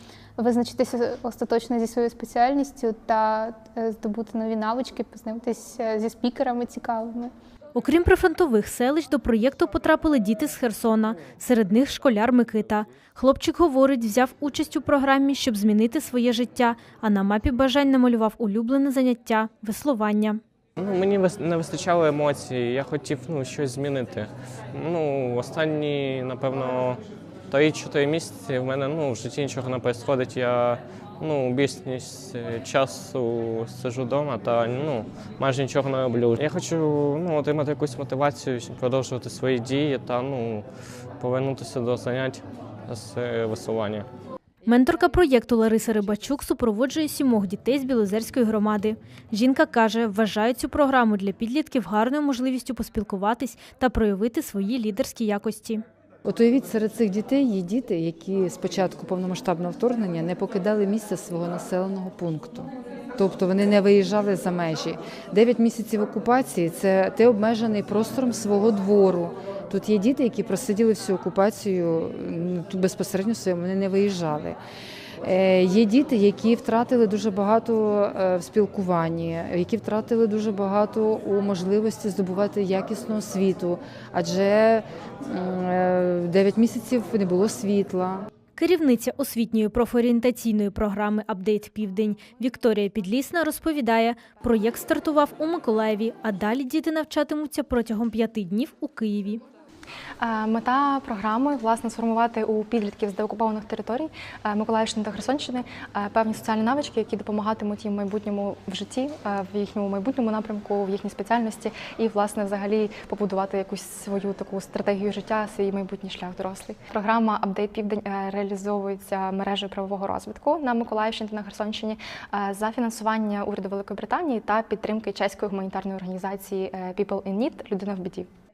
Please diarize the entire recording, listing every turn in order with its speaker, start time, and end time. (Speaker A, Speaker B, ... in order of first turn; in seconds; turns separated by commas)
Speaker A: 0.4-7.3, Speaker B: 7.8-20.4, Speaker C: 20.8-40.7, Speaker C: 41.2-44.1, Speaker B: 44.7-55.8, Speaker D: 56.3-74.6, Speaker D: 75.2-88.3, Speaker B: 88.6-99.4, Speaker E: 100.2-128.3